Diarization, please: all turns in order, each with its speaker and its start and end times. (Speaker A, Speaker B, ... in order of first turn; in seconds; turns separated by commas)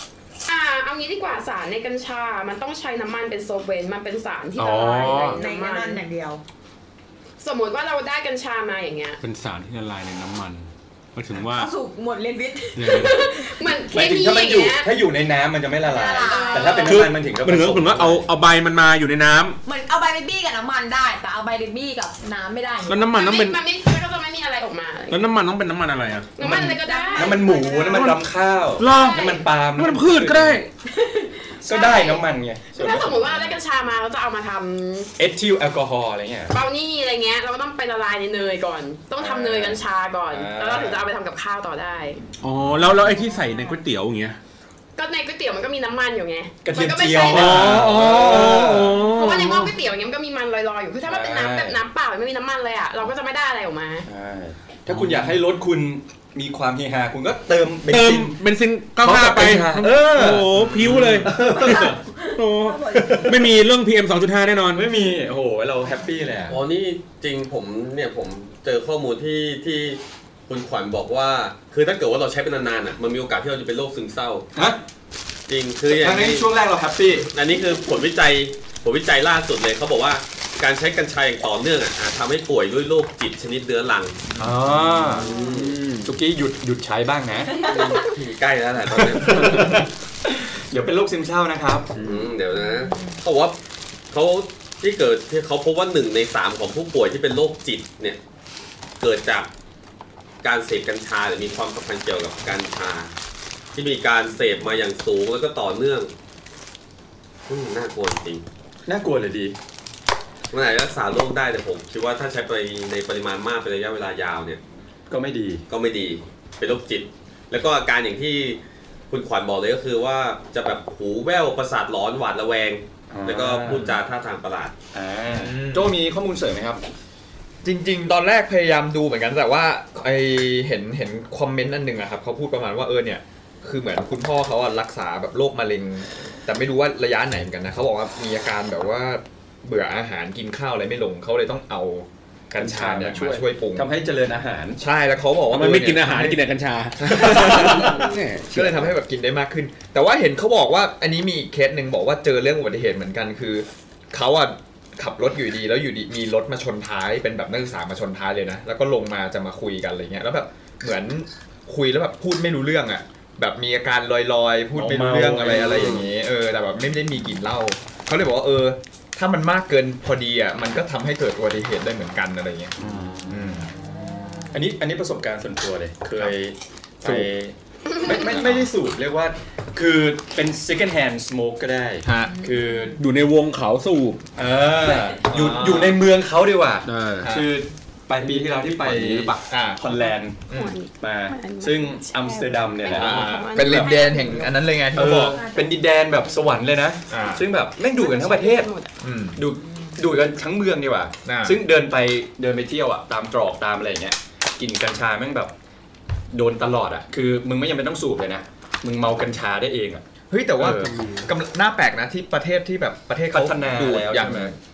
Speaker A: 0.5-6.0, Speaker B: 4.6-5.4, Speaker C: 5.0-6.4, Speaker A: 7.4-9.2, Speaker D: 9.2-11.7, Speaker C: 11.4-13.6, Speaker D: 12.8-13.2, Speaker A: 12.8-14.9, Speaker B: 13.9-18.3, Speaker C: 15.8-17.0, Speaker A: 16.1-17.1, Speaker D: 16.8-19.6, Speaker C: 19.6-23.1, Speaker D: 22.9-23.6, Speaker A: 23.1-25.2, Speaker D: 25.1-26.4, Speaker A: 26.4-28.0, Speaker B: 26.4-30.6, Speaker C: 26.5-28.1, Speaker D: 27.9-28.2, Speaker D: 28.8-30.7, Speaker A: 28.8-29.5, Speaker B: 31.6-33.5, Speaker A: 31.7-32.2, Speaker C: 31.7-32.1, Speaker A: 32.7-35.1, Speaker B: 35.2-36.6, Speaker A: 36.5-42.2, Speaker B: 39.2-41.1, Speaker D: 42.4-44.4, Speaker C: 43.2-43.8, Speaker A: 45.0-47.8, Speaker B: 46.6-49.0, Speaker D: 47.3-49.8, Speaker A: 49.0-54.1, Speaker B: 51.0-51.8, Speaker B: 54.1-58.4, Speaker D: 54.9-55.4, Speaker D: 57.9-64.9, Speaker B: 59.0-62.0, Speaker C: 61.4-63.6, Speaker B: 64.7-66.6, Speaker E: 66.5-74.5, Speaker B: 74.5-74.8, Speaker E: 75.5-76.5, Speaker B: 75.9-77.3, Speaker E: 77.3-84.2, Speaker B: 84.4-85.3, Speaker E: 85.1-85.9, Speaker D: 85.7-86.1, Speaker B: 86.0-87.7, Speaker C: 87.5-88.0, Speaker E: 87.6-89.9, Speaker B: 89.1-91.9, Speaker E: 92.0-93.6, Speaker C: 92.6-93.2, Speaker E: 94.1-98.2, Speaker E: 99.0-99.5, Speaker E: 100.4-103.1, Speaker E: 103.7-106.1, Speaker E: 107.5-108.5, Speaker B: 108.9-109.6, Speaker E: 110.5-114.6, Speaker B: 115.1-115.7, Speaker E: 115.7-124.8, Speaker B: 123.1-123.9, Speaker B: 124.9-126.8, Speaker F: 125.3-126.0, Speaker F: 127.6-143.9, Speaker B: 142.6-144.8, Speaker F: 144.8-146.4, Speaker D: 145.5-148.7, Speaker F: 147.0-172.8, Speaker B: 147.1-148.1, Speaker B: 148.6-148.9, Speaker B: 164.8-165.9, Speaker E: 165.5-166.1, Speaker B: 172.8-173.3, Speaker F: 173.3-173.7, Speaker B: 174.5-183.0, Speaker F: 178.2-178.7, Speaker F: 182.0-182.3, Speaker C: 182.2-183.0, Speaker D: 183.0-184.2, Speaker B: 184.4-190.4, Speaker F: 185.3-186.0, Speaker D: 186.9-187.3, Speaker F: 187.2-187.5, Speaker E: 188.3-188.6, Speaker F: 188.7-189.8, Speaker A: 190.4-194.4, Speaker F: 190.5-190.8, Speaker B: 191.0-193.8, Speaker F: 192.9-195.4, Speaker C: 193.6-195.8, Speaker B: 194.9-198.7, Speaker F: 197.1-197.5, Speaker A: 197.8-198.9, Speaker F: 199.0-199.4, Speaker B: 199.4-205.5, Speaker C: 199.6-200.0, Speaker F: 201.2-201.6, Speaker B: 206.3-210.0, Speaker F: 210.3-214.5, Speaker B: 210.6-210.9, Speaker E: 210.8-211.3, Speaker B: 213.3-214.6, Speaker E: 213.8-214.3